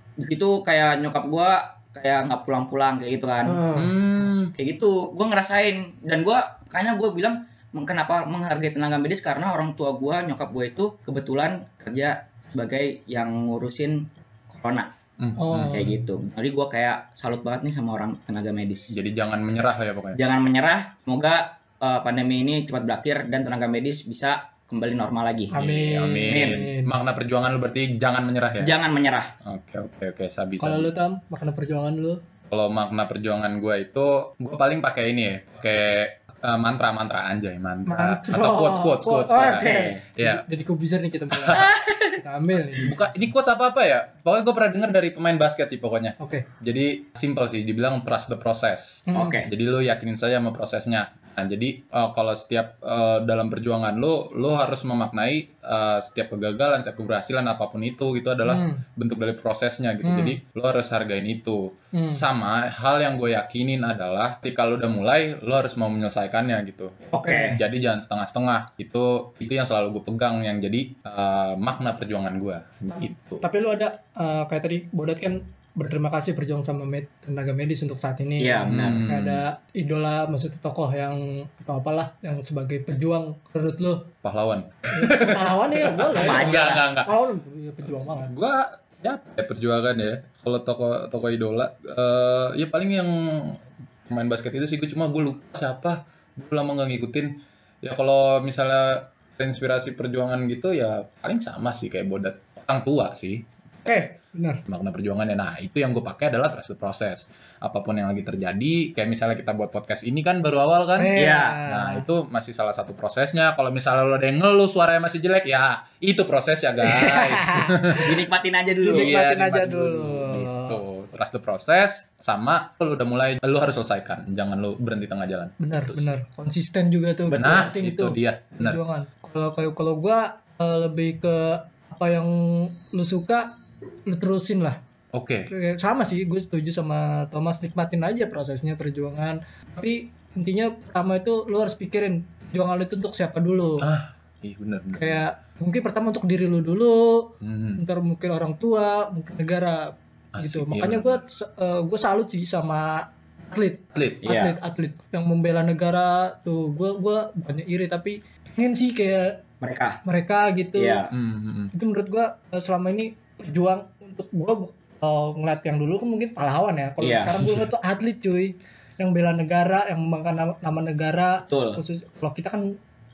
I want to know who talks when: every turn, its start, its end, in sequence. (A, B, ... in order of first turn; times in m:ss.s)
0:00.2-0:03.6 A
0:03.5-0:03.9 B
0:03.7-0:04.5 C
0:04.6-0:14.9 A
0:15.2-0:15.9 C
0:15.4-0:15.9 B
0:15.6-0:19.0 A
0:18.9-0:20.2 C
0:20.2-0:25.7 A
0:25.5-0:26.9 B
0:25.6-0:28.7 C
0:26.3-0:26.7 A
0:28.6-0:29.3 A
0:29.4-0:30.9 C
0:30.6-0:32.2 B
0:32.5-0:40.4 C
0:37.9-0:43.0 B
0:39.6-0:40.0 A
0:41.3-0:41.7 C
0:41.6-0:42.2 A
0:42.8-1:13.4 C
0:46.2-0:46.5 B
0:49.1-0:49.4 B
0:49.2-0:49.5 A
0:58.4-0:58.8 B
1:00.0-1:00.4 B
1:01.9-1:02.2 B
1:07.1-1:07.6 A
1:13.4-1:24.1 B
1:18.4-1:19.1 A
1:18.7-1:19.4 C
1:24.2-1:27.1 C
1:24.9-1:28.3 B
1:26.2-1:26.9 A
1:28.2-1:37.3 C
1:37.8-1:43.4 C
1:43.9-1:44.6 B
1:44.7-1:58.2 C
1:51.0-1:52.0 B
1:51.2-1:51.6 A
1:56.9-1:58.0 B
1:58.0-1:59.2 A
1:58.8-2:00.8 B
1:58.8-2:06.1 C
2:05.6-2:13.5 B
2:07.3-2:08.8 C
2:14.1-2:14.8 B
2:15.1-2:15.5 C
2:15.5-2:23.9 B
2:23.8-2:25.2 C
2:25.0-2:39.4 B
2:27.4-2:27.8 C
2:30.4-2:31.2 C
2:34.0-2:34.3 C
2:34.2-2:34.6 A
2:39.6-2:40.0 A
2:40.0-2:41.0 B
2:40.8-2:41.1 A
2:41.1-2:41.7 C
2:41.7-2:52.7 B
2:47.0-2:47.4 A
2:47.4-2:47.7 C
2:51.5-2:51.8 A